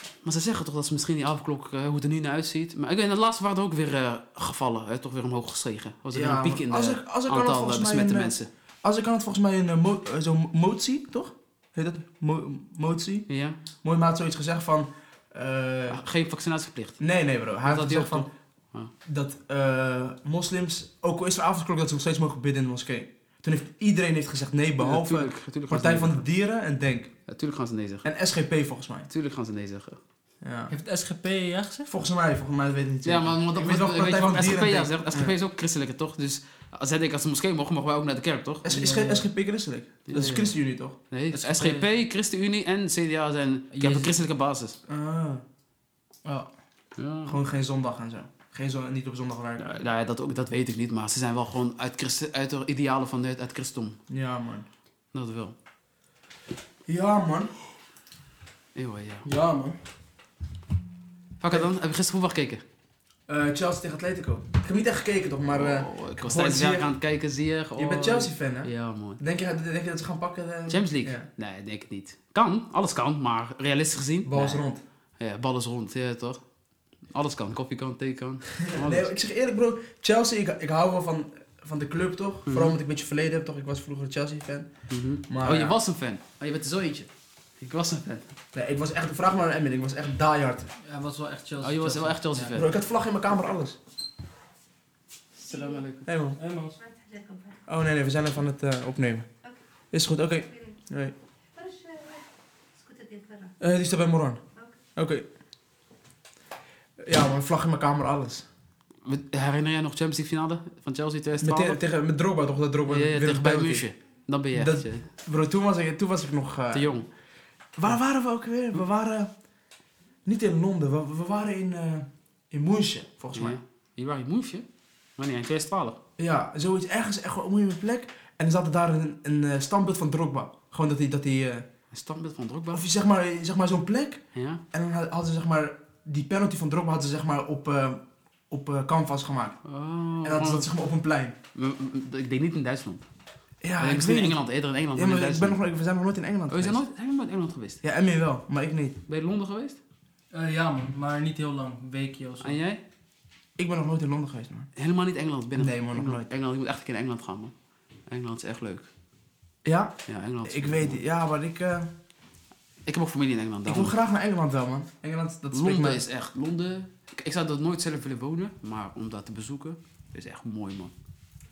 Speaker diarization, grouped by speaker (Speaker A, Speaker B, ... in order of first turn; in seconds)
Speaker A: 0.2-8.5, 13.3-13.6, 15.9-17.0, 17.6-18.9, 24.8-26.2, 27.3-28.1, 29.1-30.0, 33.0-38.6, 40.1-40.6, 41.1-44.8, 47.0-47.4, 49.6-54.0, 55.1-55.5, 58.8-59.3, 61.4-62.6, 65.5-69.2, 70.7-74.6, 75.2-76.4, 77.1-79.1, 82.5-82.8, 84.9-88.3, 91.6-92.7, 95.4-96.1, 109.0-111.8, 112.9-115.1, 116.7-117.1, 123.3-124.7, 125.2-126.0, 131.9-132.8, 134.3-134.6, 139.7-140.7, 141.6-143.0, 143.8-145.6, 146.5-147.8, 149.1-149.8, 152.4-152.8, 154.8-157.5, 158.1-158.9, 160.1-161.0, 162.9-163.9, 165.5-170.9
Speaker B: 6.1-13.3, 13.8-16.0, 17.0-18.3, 19.1-27.1, 28.0-29.1, 30.4-30.7, 31.9-35.4, 38.6-41.0, 44.9-45.4, 47.3-49.7, 54.1-54.7, 56.9-57.5, 59.2-59.8, 63.3-66.9, 67.8-71.3, 74.3-74.8, 78.6-84.7, 85.3-85.8, 88.5-90.7, 92.5-93.8, 96.1-96.4, 97.7-99.3, 99.9-101.1, 103.6-104.4, 105.0-105.2, 107.0-108.5, 111.4-113.9, 114.5-116.9, 117.8-119.3, 120.2-123.6, 126.2-131.7, 132.7-139.6, 140.2-141.3, 143.6-144.4, 144.9-146.8, 147.8-149.0, 153.6-154.7, 155.6-156.3, 159.6-161.9, 163.7-166.0
Speaker C: 30.7-31.9, 38.7-39.3, 41.3-41.9, 43.7-44.1, 46.2-46.5, 90.8-92.6, 96.4-96.8, 150.3-152.6